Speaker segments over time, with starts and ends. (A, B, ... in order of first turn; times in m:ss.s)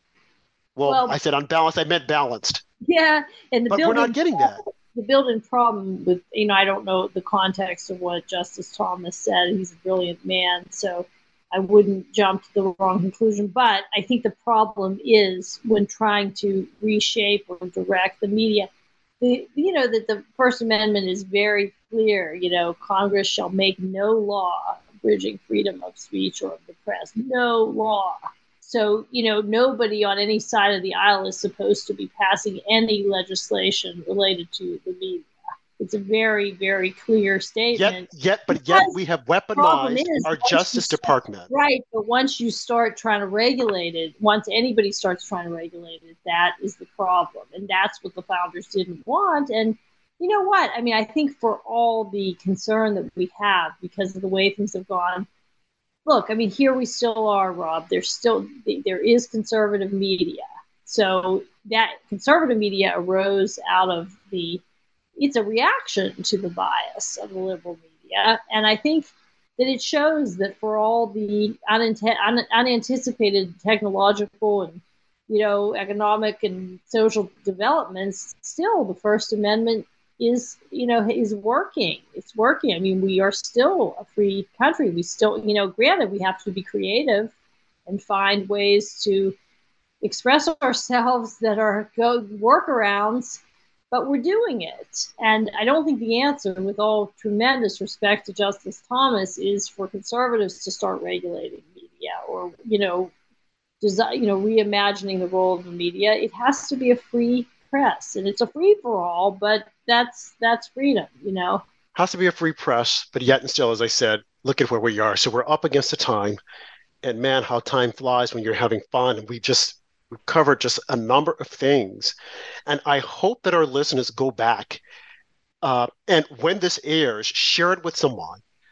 0:00.8-0:02.6 A
0:00.8-0:01.2 B
0:02.8-0:18.7 B
0:03.7-0:04.6 A
0:19.2-0:38.9 B
0:37.7-0:41.5 A
0:39.5-0:55.3 B
0:56.0-1:04.6 B
1:05.2-1:27.3 B
1:27.9-1:29.4 B
1:30.0-1:33.4 B
1:33.9-1:43.1 B
1:43.8-1:51.6 B
1:51.9-1:56.4 A
1:57.0-2:04.8 A
2:05.6-2:08.4 A